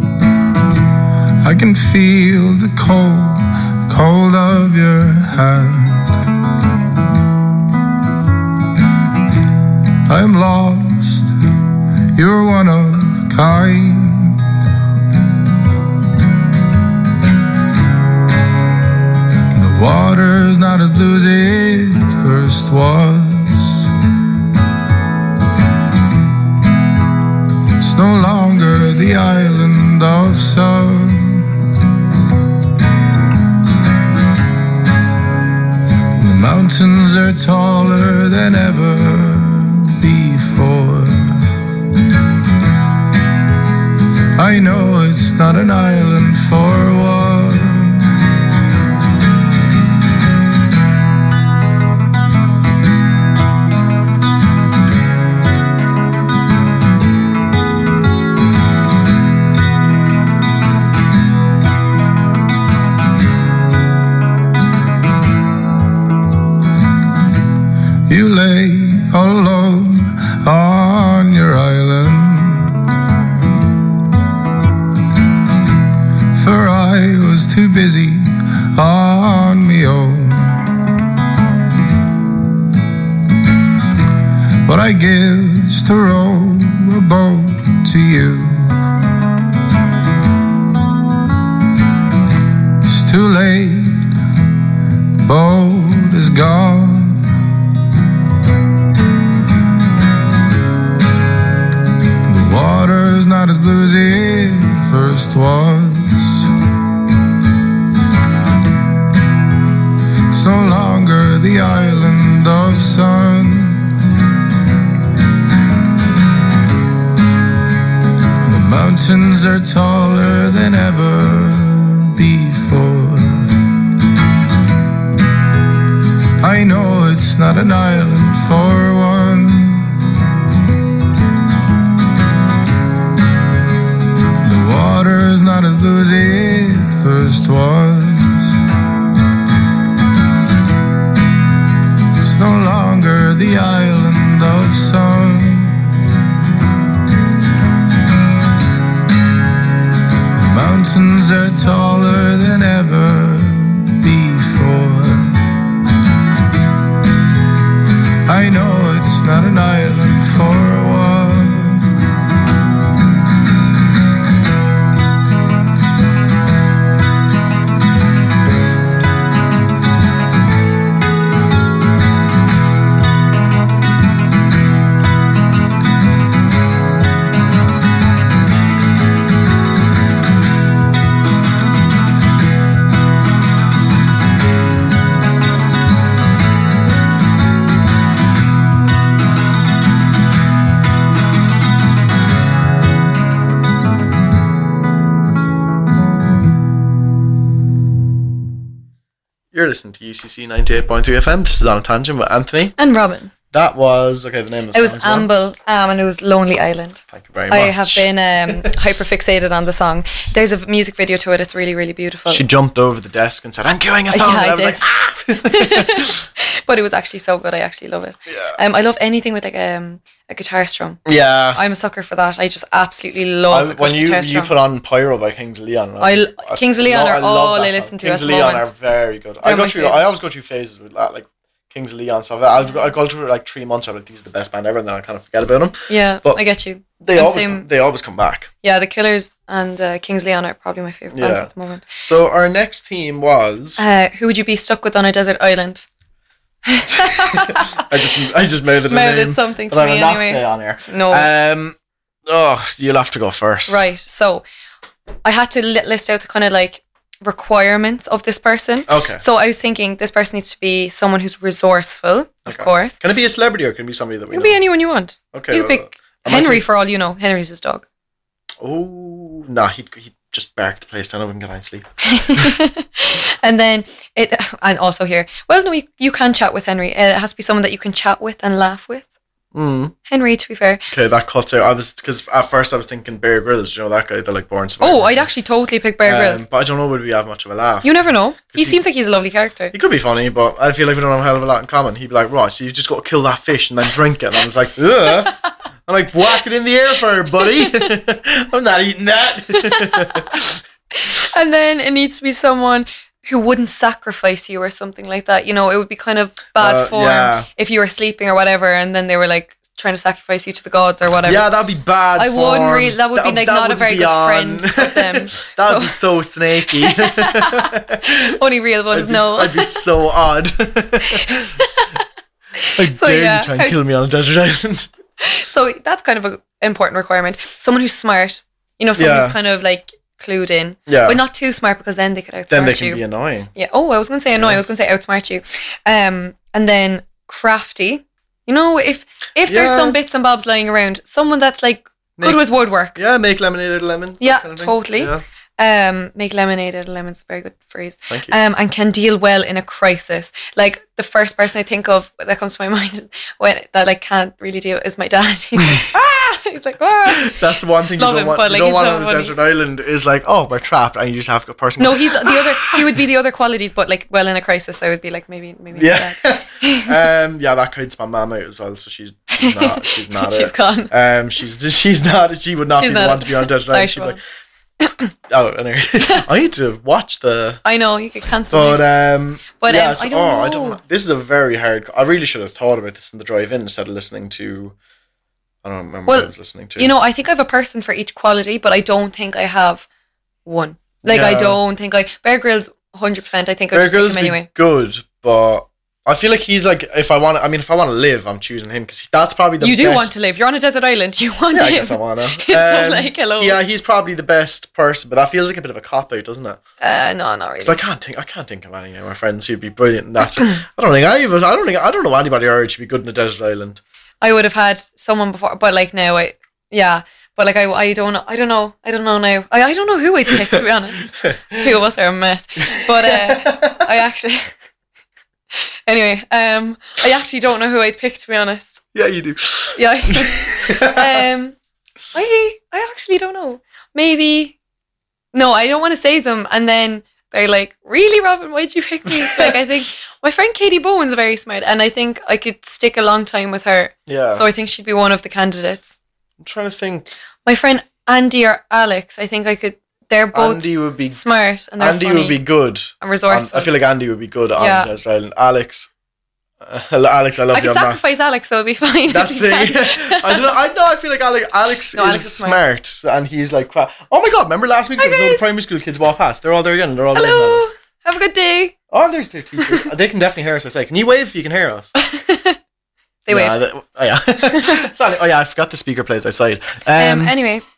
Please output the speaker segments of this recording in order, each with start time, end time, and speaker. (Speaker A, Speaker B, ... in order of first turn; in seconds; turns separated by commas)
Speaker A: 1.4-6.1, Speaker A: 10.1-11.3, Speaker A: 12.1-14.4, Speaker A: 19.5-23.9, Speaker A: 27.8-31.6, Speaker A: 36.1-41.5, Speaker A: 44.4-48.1, Speaker A: 68.1-72.8, Speaker A: 76.3-80.6, Speaker A: 84.6-88.8, Speaker A: 92.8-94.1, Speaker A: 95.2-97.2, Speaker A: 102.3-106.5, Speaker A: 110.3-113.9, Speaker A: 118.4-123.6, Speaker A: 126.4-130.0, Speaker A: 134.4-138.5, Speaker A: 142.2-146.0, Speaker A: 150.4-155.4, Speaker A: 158.3-161.9, Speaker B: 199.5-202.8, Speaker C: 202.8-203.3, Speaker B: 203.5-205.3, Speaker C: 204.7-212.4, Speaker B: 207.1-208.7, Speaker B: 212.3-216.2, Speaker C: 214.1-221.0, Speaker B: 218.3-218.6, Speaker B: 221.1-221.6, Speaker C: 221.5-224.5, Speaker B: 223.5-236.4, Speaker C: 226.0-228.7, Speaker C: 229.4-230.1, Speaker C: 235.9-237.7, Speaker B: 237.0-238.5, Speaker C: 238.6-241.9, Speaker B: 241.1-243.9, Speaker C: 243.8-245.9, Speaker C: 246.7-247.9, Speaker B: 247.0-253.8, Speaker C: 248.9-251.3, Speaker C: 253.7-254.4, Speaker C: 255.2-263.0, Speaker B: 258.9-259.2, Speaker B: 262.5-264.6, Speaker C: 264.3-267.9, Speaker B: 265.3-266.6, Speaker B: 268.6-272.6, Speaker C: 272.0-279.1, Speaker B: 279.5-279.9, Speaker C: 280.1-280.9, Speaker B: 280.9-285.3, Speaker C: 284.8-286.4, Speaker B: 286.0-288.0, Speaker C: 287.8-289.7, Speaker B: 288.5-288.8, Speaker B: 289.7-295.4, Speaker B: 295.9-300.6, Speaker C: 297.4-297.9, Speaker C: 299.5-300.4, Speaker C: 300.9-311.4, Speaker B: 306.6-307.5, Speaker B: 311.2-318.3, Speaker C: 312.2-316.0, Speaker C: 316.6-319.8, Speaker B: 318.9-321.5, Speaker C: 321.0-322.0, Speaker C: 322.6-323.8, Speaker B: 322.8-324.9, Speaker C: 325.2-333.0, Speaker B: 329.0-329.4, Speaker B: 330.9-331.2, Speaker B: 332.5-333.5, Speaker C: 333.6-343.0, Speaker B: 334.3-334.7, Speaker B: 339.5-340.0, Speaker B: 342.2-342.4, Speaker B: 342.9-345.2, Speaker C: 344.2-357.4, Speaker B: 348.1-348.4, Speaker B: 357.1-363.0, Speaker C: 358.0-359.4, Speaker C: 361.8-367.0, Speaker B: 365.8-374.2, Speaker C: 369.3-370.9, Speaker C: 372.8-374.2, Speaker B: 375.3-377.6, Speaker C: 377.6-378.9, Speaker B: 378.5-384.8, Speaker C: 379.6-380.8, Speaker B: 385.6-386.9, Speaker C: 386.1-389.9, Speaker C: 390.4-394.5, Speaker B: 391.1-391.6, Speaker B: 393.7-400.1, Speaker C: 399.6-403.6, Speaker B: 401.5-406.6, Speaker C: 406.8-407.8, Speaker B: 407.6-413.8, Speaker C: 414.2-424.6, Speaker B: 421.2-421.6, Speaker B: 422.7-423.9, Speaker C: 425.9-428.9, Speaker B: 428.9-431.2, Speaker C: 429.7-431.6, Speaker C: 432.1-434.6, Speaker C: 435.3-446.0, Speaker B: 439.2-439.6, Speaker B: 444.1-444.5, Speaker B: 446.4-447.1, Speaker C: 447.5-452.4, Speaker B: 450.3-451.2, Speaker B: 451.8-455.9, Speaker C: 453.0-453.7, Speaker C: 454.6-454.9, Speaker B: 456.6-458.0, Speaker C: 457.5-460.5, Speaker B: 459.1-467.7, Speaker C: 461.9-462.6, Speaker C: 465.0-465.5, Speaker C: 467.1-468.8, Speaker B: 468.9-471.9, Speaker C: 469.6-469.9, Speaker C: 472.0-472.6, Speaker C: 473.2-473.6, Speaker B: 473.3-477.4, Speaker C: 474.5-474.9, Speaker C: 476.9-477.6